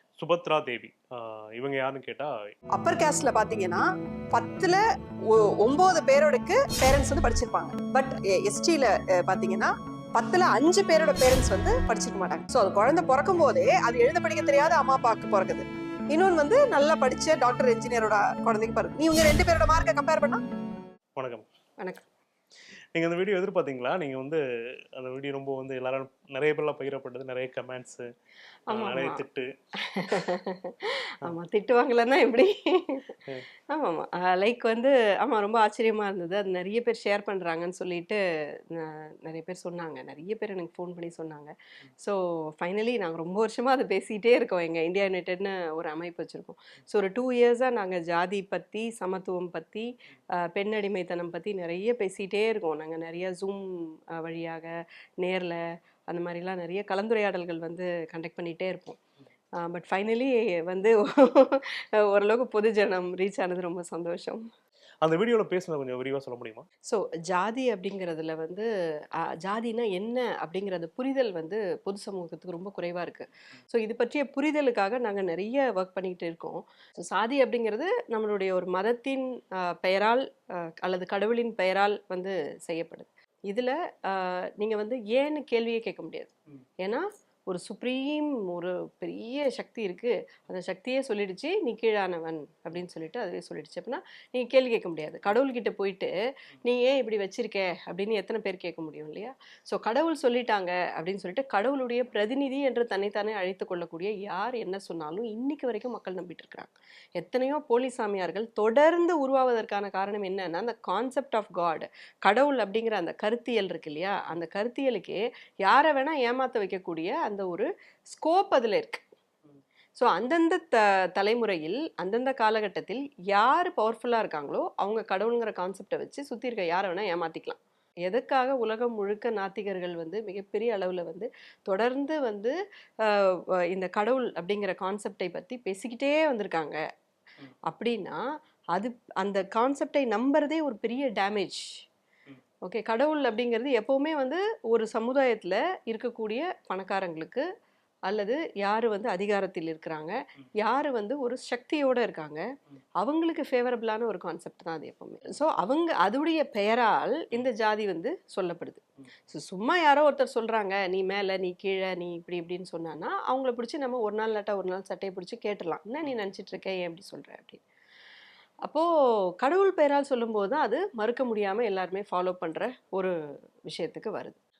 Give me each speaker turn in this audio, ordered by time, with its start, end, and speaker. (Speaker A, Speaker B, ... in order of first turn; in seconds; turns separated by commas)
Speaker A: 0.2-2.3, Speaker B: 5.8-6.8, Speaker B: 7.5-9.6, Speaker B: 10.2-11.7, Speaker B: 12.4-15.6, Speaker B: 16.1-20.2, Speaker A: 21.1-21.4, Speaker C: 21.8-22.0, Speaker A: 22.9-24.4, Speaker A: 24.9-28.0, Speaker C: 28.7-29.2, Speaker A: 28.7-29.5, Speaker C: 29.8-33.1, Speaker C: 33.7-38.2, Speaker C: 38.7-59.0, Speaker C: 59.6-64.4, Speaker A: 65.0-66.7, Speaker C: 66.8-96.1, Speaker C: 96.6-119.0, Speaker C: 120.0-136.8, Speaker C: 137.7-138.2, Speaker C: 138.7-141.6, Speaker C: 142.7-147.4, Speaker C: 148.1-152.4, Speaker C: 153.0-167.6, Speaker C: 169.4-173.1, Speaker C: 173.7-174.4